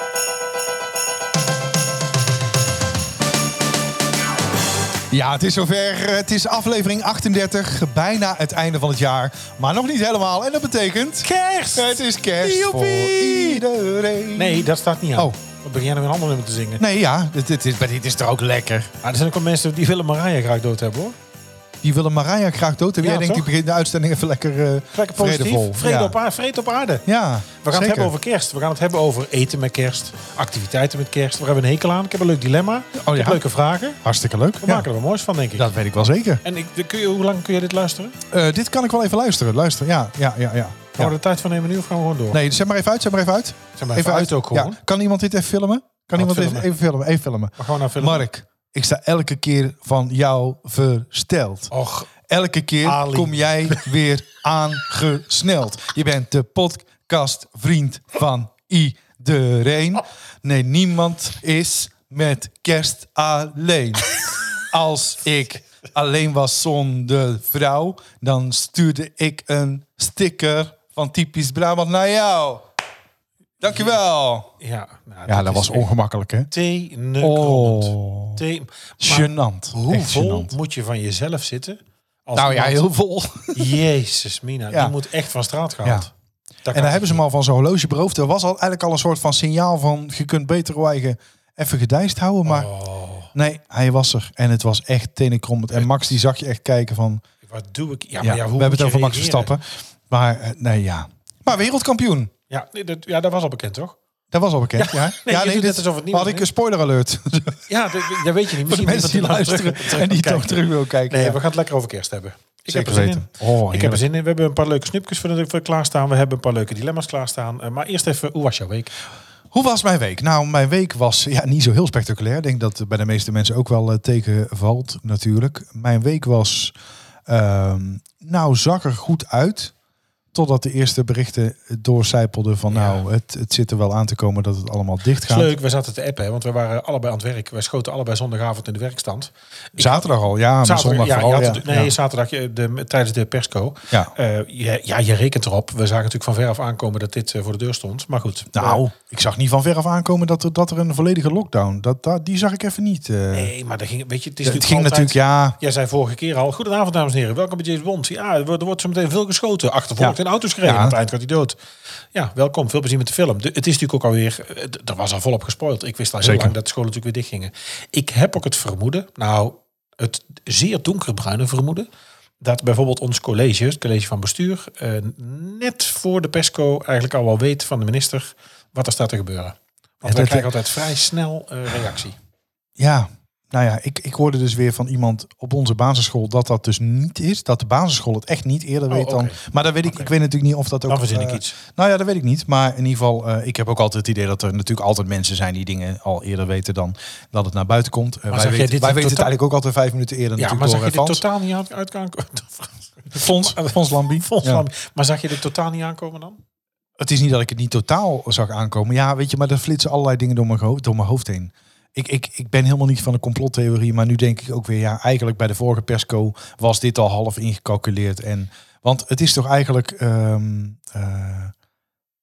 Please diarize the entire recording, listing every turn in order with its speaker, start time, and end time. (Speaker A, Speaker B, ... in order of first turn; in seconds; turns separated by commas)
Speaker A: 5.1-15.4, Speaker B: 11.2-13.6, Speaker B: 14.3-16.8, Speaker A: 16.8-18.9, Speaker B: 19.0-21.2, Speaker A: 21.8-26.1, Speaker B: 23.0-23.5, Speaker B: 24.9-27.0, Speaker A: 27.1-28.1, Speaker B: 27.6-34.0, Speaker A: 33.0-33.4, Speaker A: 34.0-34.9, Speaker B: 34.6-35.7, Speaker A: 35.5-36.4, Speaker B: 36.5-38.2, Speaker A: 38.3-41.1, Speaker B: 41.0-42.4, Speaker A: 42.3-51.7, Speaker B: 43.8-44.8, Speaker B: 46.2-46.7, Speaker B: 47.6-48.2, Speaker B: 51.7-52.1, Speaker A: 52.3-72.7, Speaker B: 52.8-53.8, Speaker A: 73.6-74.5, Speaker B: 73.7-74.0, Speaker B: 74.6-75.9, Speaker A: 75.3-76.5, Speaker B: 76.5-82.9, Speaker A: 77.2-78.4, Speaker A: 79.0-80.5, Speaker A: 82.3-83.8, Speaker B: 83.5-86.1, Speaker A: 85.8-86.1, Speaker B: 86.7-87.2, Speaker A: 86.7-92.7, Speaker B: 92.5-93.3, Speaker A: 93.3-97.2, Speaker B: 97.5-99.5, Speaker A: 98.2-102.3, Speaker B: 102.5-104.0, Speaker A: 104.3-111.4, Speaker B: 104.8-106.5, Speaker B: 107.7-118.9, Speaker A: 112.7-114.0, Speaker A: 119.5-126.8, Speaker A: 127.3-129.7, Speaker A: 130.3-135.5, Speaker B: 132.7-133.0, Speaker B: 135.2-140.1, Speaker A: 139.8-141.9, Speaker B: 140.6-148.8, Speaker A: 148.5-153.5, Speaker B: 153.3-161.6, Speaker A: 154.4-155.6, Speaker A: 160.0-161.0, Speaker B: 162.1-171.9, Speaker A: 166.2-166.6, Speaker B: 172.4-182.2, Speaker A: 180.1-180.5, Speaker A: 182.8-201.2, Speaker B: 188.9-190.1, Speaker B: 190.9-191.6, Speaker B: 198.3-199.3, Speaker B: 200.4-206.4, Speaker A: 203.1-204.7, Speaker A: 207.0-221.5